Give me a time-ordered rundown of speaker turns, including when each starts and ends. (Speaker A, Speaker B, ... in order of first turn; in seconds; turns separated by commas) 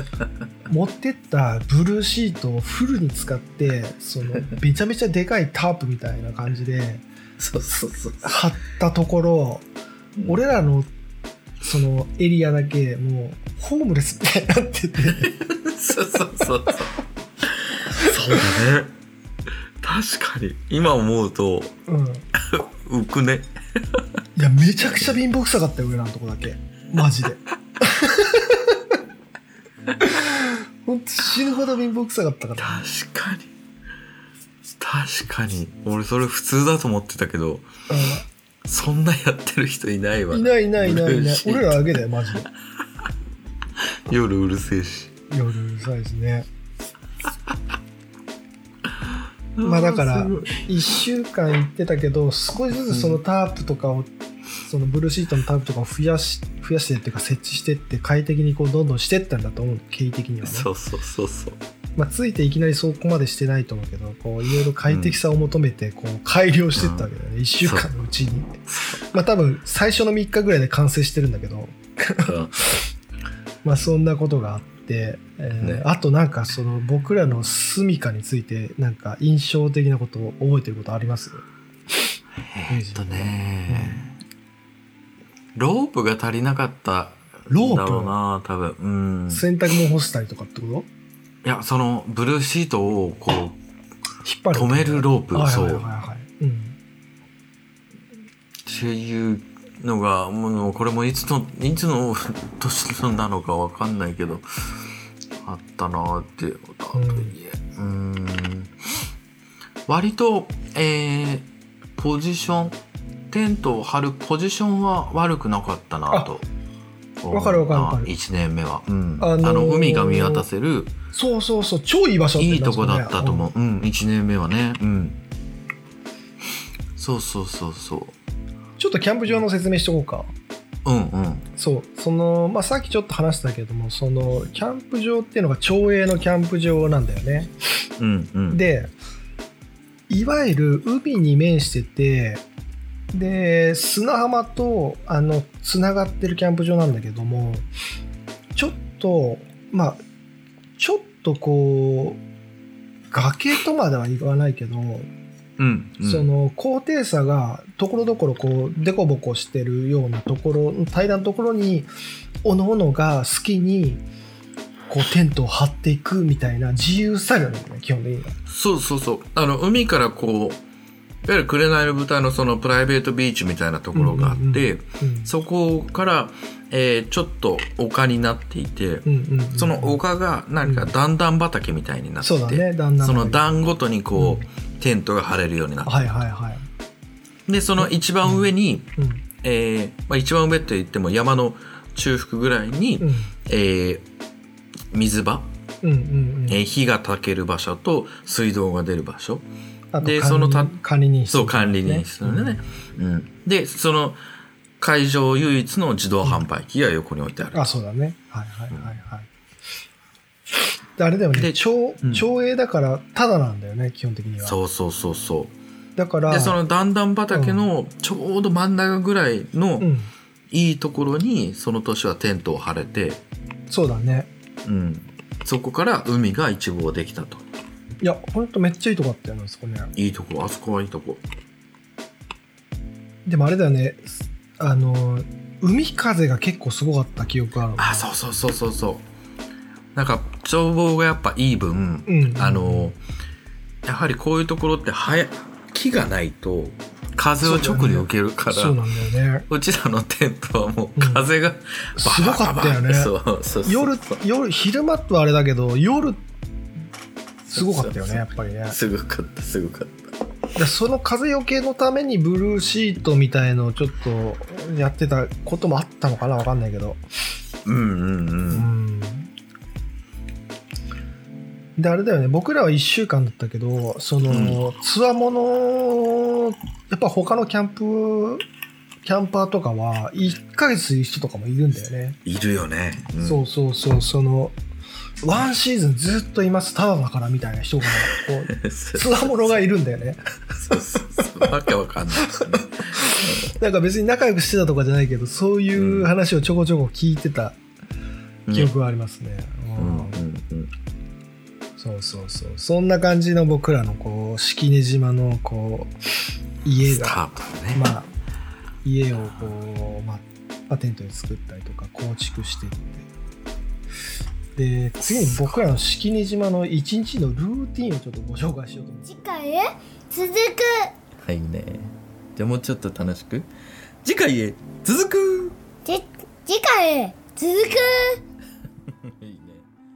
Speaker A: 0.7-7.0, Speaker B: 7.4-8.4, Speaker A: 8.2-9.6, Speaker A: 10.2-10.9, Speaker A: 11.6-15.3, Speaker B: 15.2-18.9, Speaker B: 19.8-21.7, Speaker A: 21.9-22.3, Speaker B: 22.3-24.1, Speaker A: 24.4-28.8, Speaker B: 24.8-25.1, Speaker A: 30.0-32.8, Speaker B: 32.6-33.5, Speaker B: 34.8-37.7, Speaker A: 37.9-38.2, Speaker B: 38.6-42.0, Speaker A: 40.3-42.5, Speaker B: 44.1-45.1, Speaker A: 45.3-46.5, Speaker B: 49.5-50.6, Speaker A: 49.6-54.1, Speaker B: 52.9-53.2, Speaker A: 54.6-60.7, Speaker B: 60.4-61.6, Speaker A: 62.0-72.3, Speaker B: 64.9-65.2, Speaker B: 66.7-67.1, Speaker B: 68.7-69.0, Speaker B: 72.2-72.6, Speaker A: 73.6-81.4, Speaker B: 75.6-75.8, Speaker B: 82.5-84.1, Speaker A: 82.7-84.0, Speaker B: 85.5-89.5, Speaker A: 87.5-88.1, Speaker A: 89.3-90.9, Speaker B: 91.4-93.6, Speaker A: 94.2-96.8, Speaker B: 94.5-95.9, Speaker B: 98.6-104.5, Speaker B: 105.4-108.8, Speaker A: 106.9-107.3, Speaker B: 109.9-112.8, Speaker B: 113.3-116.4, Speaker B: 117.2-120.9, Speaker A: 117.3-118.1, Speaker A: 119.2-120.5, Speaker A: 121.1-123.5, Speaker B: 122.4-125.2, Speaker B: 127.0-128.2, Speaker A: 128.8-130.3, Speaker B: 130.8-131.4, Speaker A: 131.6-137.5, Speaker B: 138.0-138.6, Speaker A: 138.5-138.9, Speaker A: 140.1-142.4, Speaker A: 143.1-147.7, Speaker A: 148.6-150.0, Speaker A: 150.8-152.2, Speaker A: 153.1-155.1, Speaker B: 155.6-156.3, Speaker A: 156.0-161.9, Speaker A: 162.4-164.0, Speaker A: 164.9-168.4, Speaker B: 168.5-170.6, Speaker B: 171.2-186.0, Speaker A: 173.9-175.3, Speaker A: 179.0-180.0, Speaker A: 180.6-180.9, Speaker A: 182.2-183.4, Speaker A: 184.2-184.4, Speaker A: 185.8-186.7, Speaker B: 187.5-188.9, Speaker A: 189.0-189.2, Speaker B: 189.4-194.0, Speaker A: 193.0-193.3, Speaker B: 194.9-195.5, Speaker A: 195.8-196.6, Speaker B: 196.5-199.4, Speaker A: 199.9-202.6, Speaker B: 200.0-200.7, Speaker B: 201.3-204.2, Speaker B: 204.8-207.7, Speaker A: 207.5-209.3, Speaker A: 211.0-214.6, Speaker B: 211.3-212.3, Speaker B: 214.4-215.5, Speaker A: 216.0-216.6, Speaker B: 216.3-219.9, Speaker A: 217.3-217.6, Speaker A: 219.8-220.1, Speaker B: 220.5-223.2, Speaker A: 223.7-224.3, Speaker B: 224.6-227.4, Speaker A: 228.0-229.9, Speaker B: 229.9-231.2, Speaker A: 233.2-238.1, Speaker B: 237.8-239.1, Speaker B: 239.9-243.0, Speaker A: 242.1-242.9, Speaker B: 243.8-248.8, Speaker A: 247.4-249.5, Speaker B: 249.5-254.2, Speaker A: 251.0-251.2, Speaker A: 252.0-253.1, Speaker A: 253.6-256.2, Speaker A: 257.4-258.8, Speaker B: 257.5-260.1, Speaker A: 260.6-267.0, Speaker B: 267.6-268.7, Speaker A: 268.5-269.3, Speaker A: 271.8-278.4, Speaker B: 274.3-274.6, Speaker A: 279.0-282.2, Speaker B: 282.2-283.4, Speaker A: 283.2-284.5, Speaker A: 285.2-290.2, Speaker B: 288.5-289.6, Speaker B: 290.6-293.5, Speaker A: 292.3-297.6, Speaker B: 295.7-296.1, Speaker B: 298.5-298.7, Speaker A: 298.5-300.2, Speaker B: 299.8-300.7, Speaker A: 301.8-305.9, Speaker A: 306.6-307.2, Speaker B: 306.8-307.9, Speaker A: 307.7-308.1, Speaker A: 308.8-313.1, Speaker A: 314.6-319.1, Speaker B: 315.2-315.6, Speaker C: 319.1-320.9, Speaker B: 321.2-323.5, Speaker B: 324.0-325.6, Speaker C: 325.8-328.2, Speaker B: 328.9-329.7